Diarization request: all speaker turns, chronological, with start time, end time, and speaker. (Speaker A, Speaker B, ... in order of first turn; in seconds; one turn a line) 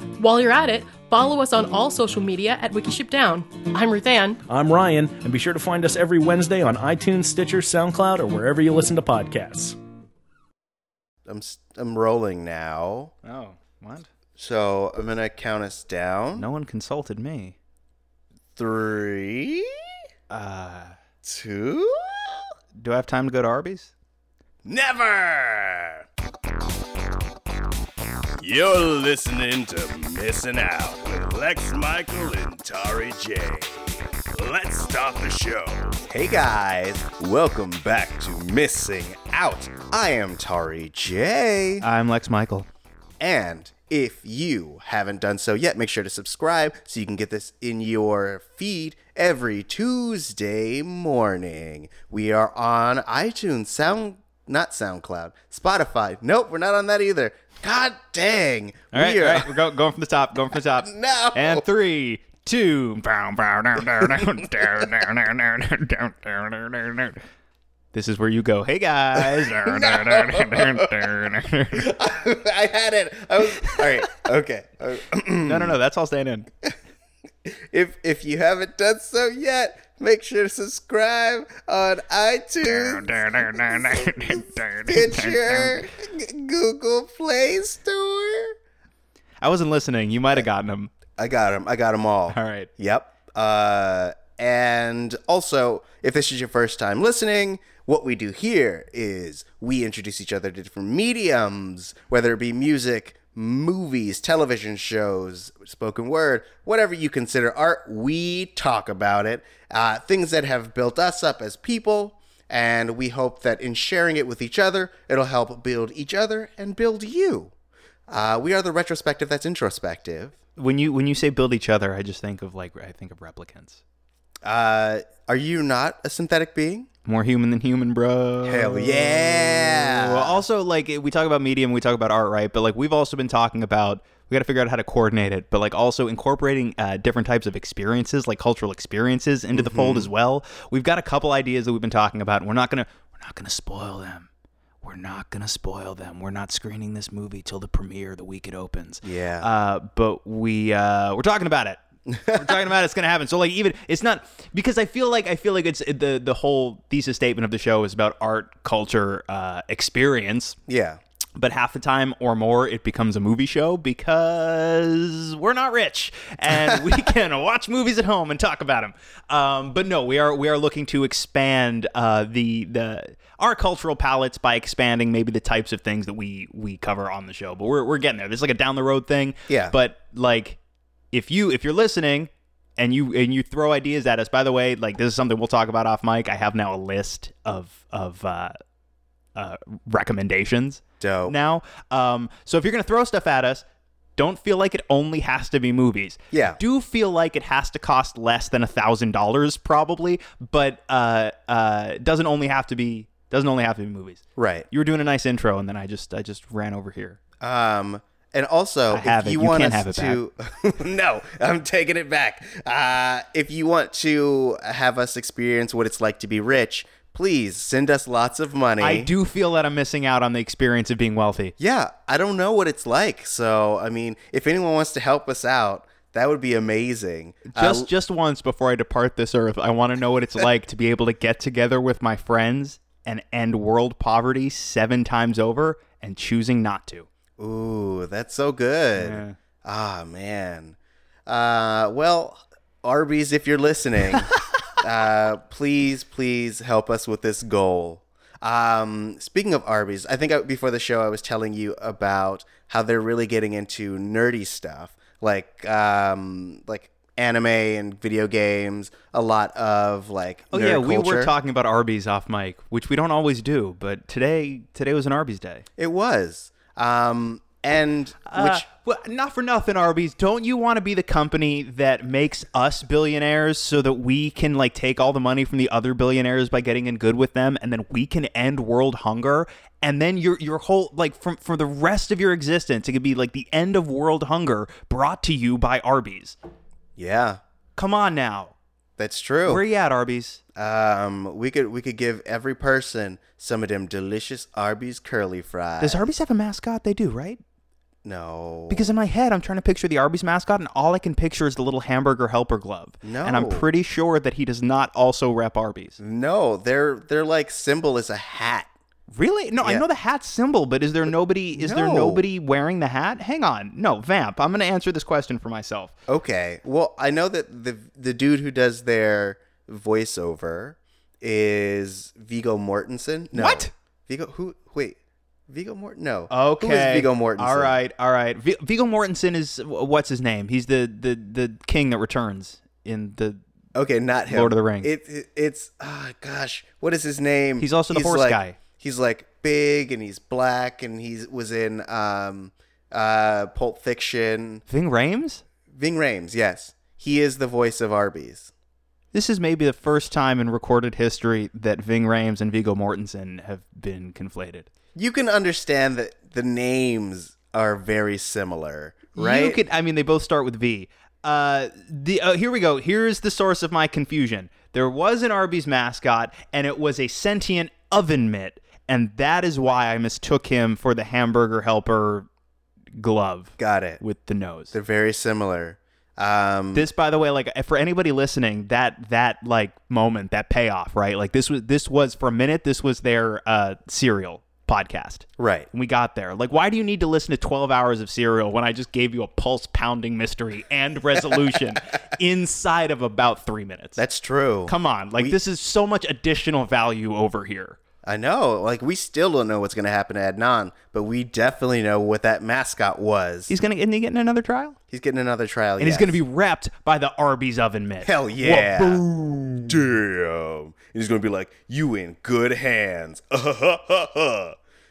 Speaker A: 0.2-4.4
Speaker B: 4.5-9.8
Speaker C: 11.2-13.1
Speaker D: 13.2-14.1
Speaker C: 14.4-16.4
Speaker D: 16.4-17.6
Speaker C: 18.6-19.8
Speaker D: 20.3-20.9
Speaker C: 21.2-22.5
Speaker D: 22.8-23.9
Speaker C: 24.6-26.0
Speaker C: 28.4-41.8
Speaker D: 41.8-42.7
Speaker C: 43.2-59.6
Speaker D: 58.9-67.2
Speaker C: 60.8-61.6
Speaker D: 67.9-71.9
Speaker C: 69.1-71.0
Speaker C: 71.7-75.7
Speaker D: 75.4-76.5
Speaker C: 77.4-88.5
Speaker D: 82.6-85.9
Speaker D: 89.4-90.9
Speaker C: 91.2-117.5
Speaker D: 92.3-92.7
Speaker C: 118.1-120.3
Speaker D: 120.6-123.8
Speaker C: 124.4-126.9
Speaker D: 127.0-144.3
Speaker C: 128.4-130.4
Speaker C: 139.5-140.1
Speaker D: 144.8-160.6
Speaker C: 149.0-149.5
Speaker C: 152.1-152.6
Speaker C: 160.7-161.0
Speaker D: 161.3-180.6
Speaker C: 179.5-179.7
Speaker D: 181.1-188.5
Speaker D: 189.3-193.6
Speaker C: 191.0-191.3
Speaker D: 194.2-207.2
Speaker C: 196.3-196.6
Speaker C: 204.3-204.7
Speaker C: 207.4-219.1
Speaker D: 208.9-210.2
Speaker D: 218.8-221.5
Speaker C: 221.6-227.9
Speaker D: 227.5-237.1
Speaker C: 237.4-240.8
Speaker D: 238.9-239.4
Speaker C: 241.3-261.3
Speaker D: 260.5-265.6
Speaker C: 265.8-268.6
Speaker D: 268.3-286.4
Speaker C: 286.9-287.4
Speaker D: 287.8-288.5
Speaker C: 289.0-289.6
Speaker D: 289.4-290.4
Speaker C: 290.6-296.0
Speaker D: 295.8-297.4
Speaker C: 298.0-298.9
Speaker D: 298.7-306.0
Speaker C: 303.0-303.7
Speaker C: 306.0-308.7
Speaker D: 309.1-315.9
Speaker C: 311.6-312.2
Speaker C: 316.1-325.0
Speaker D: 323.3-323.7
Speaker C: 325.5-327.8
Speaker D: 326.3-333.4
Speaker C: 333.7-344.6
Speaker D: 334.3-334.9
Speaker D: 337.6-338.6
Speaker D: 344.7-345.4
Speaker C: 345.7-348.5
Speaker D: 349.1-354.7
Speaker C: 354.9-359.6
Speaker D: 359.1-372.3
Speaker D: 373.0-374.8
Speaker C: 373.6-374.0
Speaker C: 374.7-376.9
Speaker D: 376.7-394.0
Speaker C: 385.4-385.7
Speaker C: 393.9-395.4
Speaker D: 394.7-397.8
Speaker C: 398.0-403.5
Speaker D: 403.5-404.8
Speaker C: 404.9-406.2
Speaker D: 405.8-409.8
Speaker C: 408.0-409.0
Speaker C: 409.6-414.6